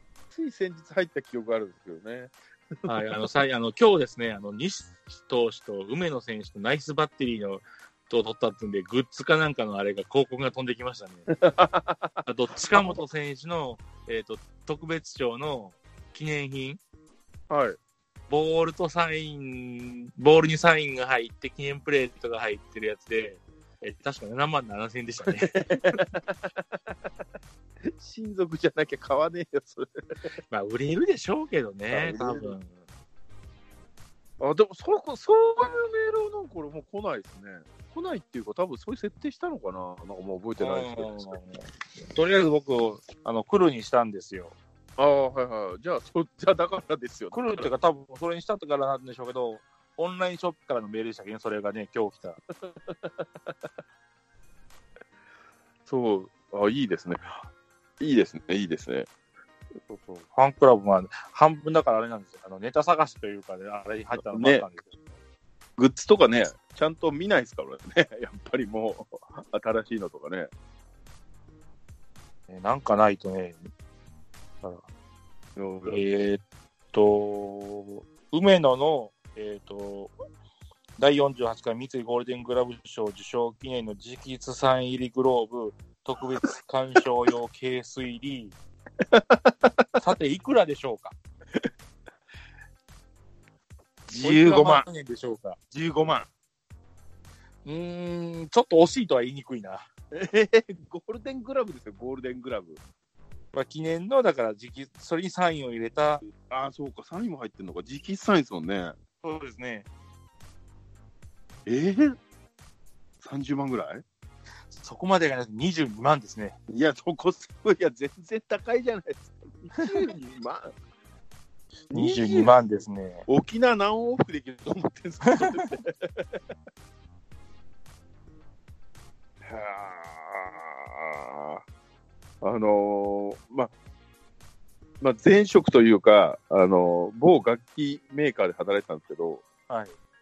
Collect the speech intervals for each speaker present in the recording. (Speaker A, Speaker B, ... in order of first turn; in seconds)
Speaker A: 0.3-2.9, 11.3-13.0, 17.5-17.8, 25.2-26.9, 27.9-29.9, 31.9-32.5, 34.4-41.3, 45.0-47.7, 52.6-53.5, 55.9-57.4, 58.0-59.1, 64.2-64.6, 65.8-70.5, 75.5-76.0, 89.0-90.0, 94.1-94.8, 95.7-96.3, 100.1-102.8, 106.5-109.0, 111.7-112.2, 113.2-114.0, 116.7-120.7, 121.9-122.5, 123.3-126.4, 129.4-131.6, 132.4-133.7, 135.0-139.4
Speaker B: 2.8-11.3, 12.2-16.8, 18.3-26.0, 30.5-32.8, 40.6-44.5, 47.3-52.4, 59.9-65.0, 72.5-73.7, 75.9-80.1, 81.0-88.5, 90.0-91.1, 94.2-95.6, 97.6-99.8, 103.5-106.2, 109.2-109.9, 114.7-116.5, 121.9-123.2, 139.7-139.9